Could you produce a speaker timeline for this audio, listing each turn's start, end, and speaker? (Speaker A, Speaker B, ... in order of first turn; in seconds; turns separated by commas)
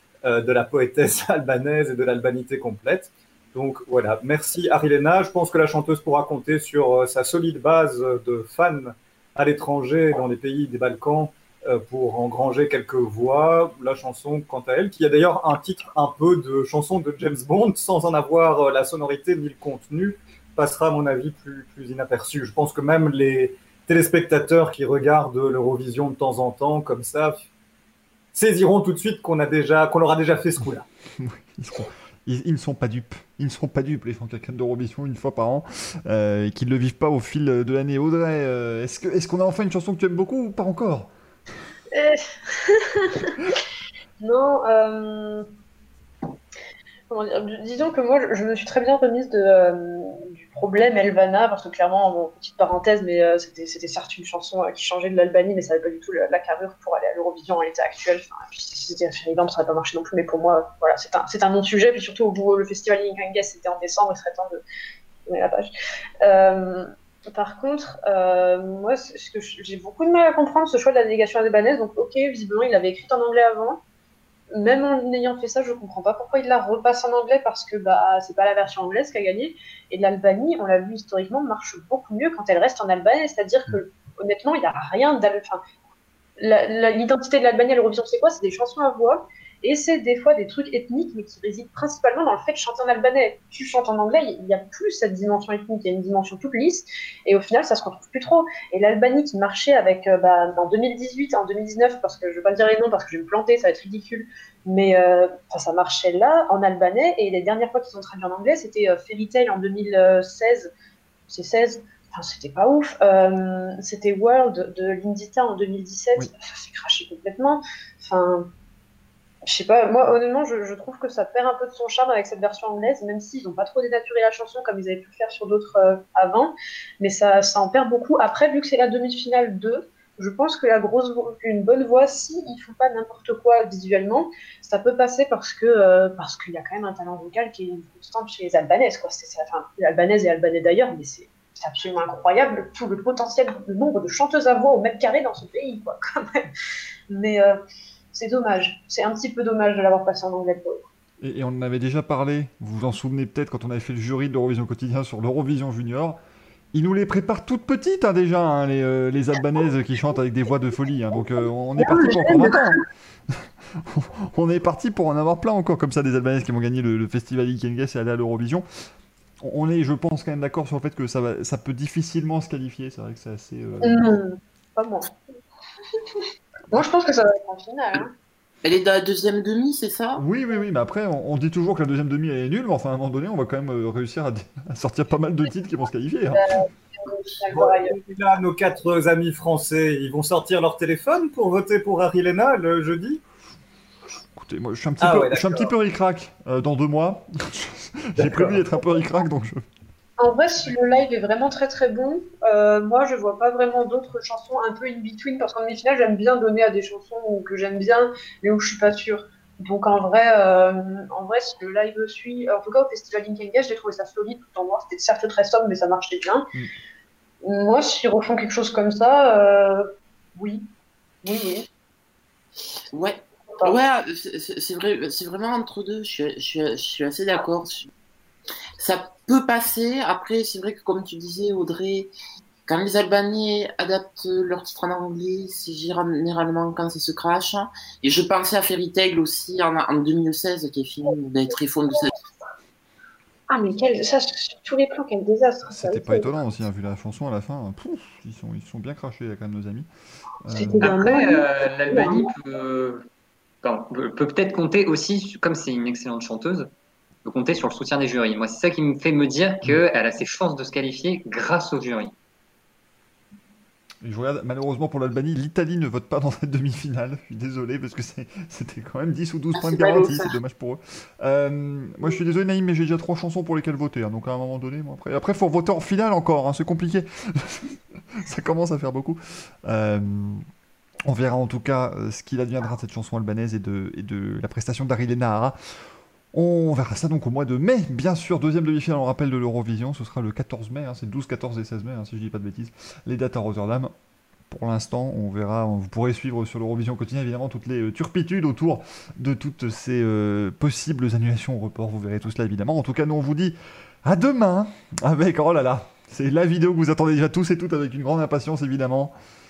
Speaker A: 0.2-27.5, Speaker A: 28.3-30.9, Speaker B: 31.2-41.1, Speaker C: 41.9-43.3, Speaker C: 44.2-45.5, Speaker C: 47.1-64.6, Speaker C: 65.3-65.7, Speaker C: 66.2-73.8, Speaker C: 74.5-85.6, Speaker C: 86.4-110.7, Speaker C: 111.3-118.5, Speaker C: 119.5-146.5, Speaker C: 147.1-147.6, Speaker C: 148.1-150.9, Speaker B: 151.2-156.2, Speaker B: 156.7-162.8, Speaker C: 161.8-162.8, Speaker B: 163.9-168.7, Speaker B: 169.4-174.2, Speaker C: 173.8-175.1, Speaker C: 176.0-178.1, Speaker D: 178.6-180.2, Speaker B: 180.2-186.4, Speaker C: 186.3-187.9, Speaker A: 187.5-193.2, Speaker B: 194.4-199.6, Speaker A: 195.0-195.7, Speaker A: 198.2-198.7, Speaker C: 200.2-216.5, Speaker C: 217.4-219.8, Speaker C: 220.4-220.7, Speaker C: 221.2-221.7, Speaker D: 222.9-227.9, Speaker D: 228.8-232.1, Speaker D: 232.7-242.1, Speaker C: 243.5-246.3, Speaker B: 245.7-249.9, Speaker B: 250.4-251.0, Speaker C: 250.5-252.3, Speaker E: 250.8-253.0, Speaker E: 253.6-256.7, Speaker E: 257.2-262.1, Speaker B: 264.0-280.4, Speaker D: 269.6-270.4, Speaker B: 281.1-285.6, Speaker B: 286.3-293.9, Speaker B: 294.5-309.1